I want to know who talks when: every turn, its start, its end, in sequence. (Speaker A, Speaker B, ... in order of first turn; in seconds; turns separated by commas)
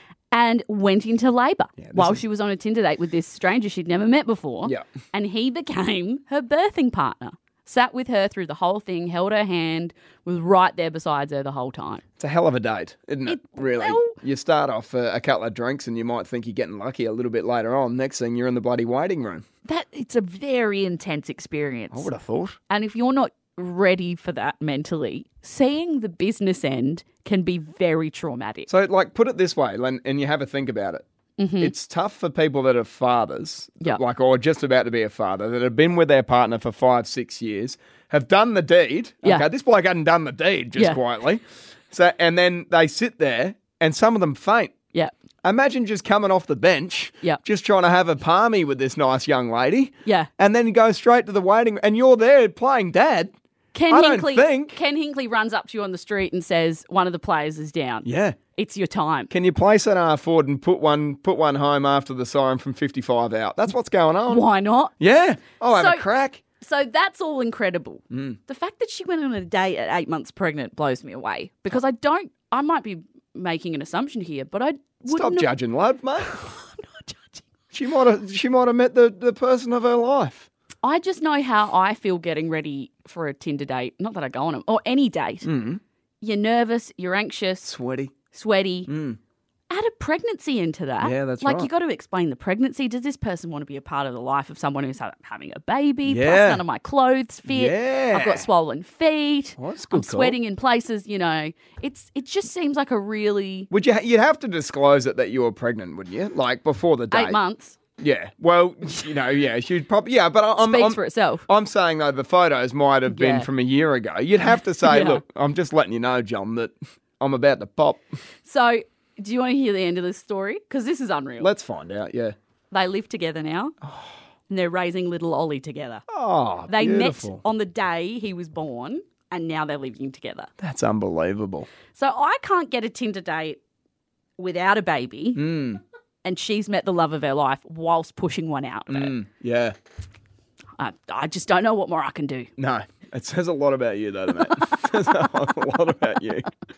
Speaker A: 0.3-12.0, Speaker B: 1.8-2.2, Speaker B: 12.2-19.4, Speaker A: 13.3-14.2, Speaker A: 19.6-22.1, Speaker B: 21.9-22.6, Speaker A: 22.7-28.7, Speaker B: 28.7-31.0, Speaker A: 31.4-31.7, Speaker B: 31.6-44.7, Speaker A: 39.2-39.5, Speaker B: 45.4-53.4, Speaker A: 53.7-59.3, Speaker B: 53.9-54.8, Speaker B: 58.0-58.4, Speaker B: 59.3-64.5, Speaker A: 64.3-64.9, Speaker B: 65.0-66.4, Speaker A: 65.7-66.0, Speaker A: 66.6-75.5, Speaker B: 68.1-68.4, Speaker B: 75.1-76.3, Speaker A: 76.2-77.4, Speaker B: 77.7-80.5, Speaker A: 80.8-85.5, Speaker B: 85.4-85.8, Speaker A: 86.2-87.7, Speaker B: 87.6-88.1, Speaker A: 88.3-88.9, Speaker B: 88.9-89.2, Speaker A: 89.7-103.7, Speaker B: 91.0-91.7, Speaker B: 96.1-96.6, Speaker B: 97.5-98.5, Speaker B: 99.6-100.4, Speaker B: 103.7-107.4, Speaker A: 107.1-107.8, Speaker B: 108.0-118.0, Speaker A: 110.6-111.5, Speaker A: 113.1-113.5, Speaker A: 114.8-115.2, Speaker A: 118.4-121.5, Speaker B: 121.4-122.3, Speaker A: 122.7-123.7, Speaker B: 123.8-124.1, Speaker A: 124.5-126.0, Speaker B: 126.1-127.4, Speaker A: 126.7-130.5, Speaker B: 130.6-131.7, Speaker A: 131.9-133.6, Speaker A: 134.4-135.6, Speaker B: 135.3-135.8, Speaker A: 136.2-139.2, Speaker B: 138.9-139.8, Speaker A: 140.8-142.5, Speaker B: 142.6-146.5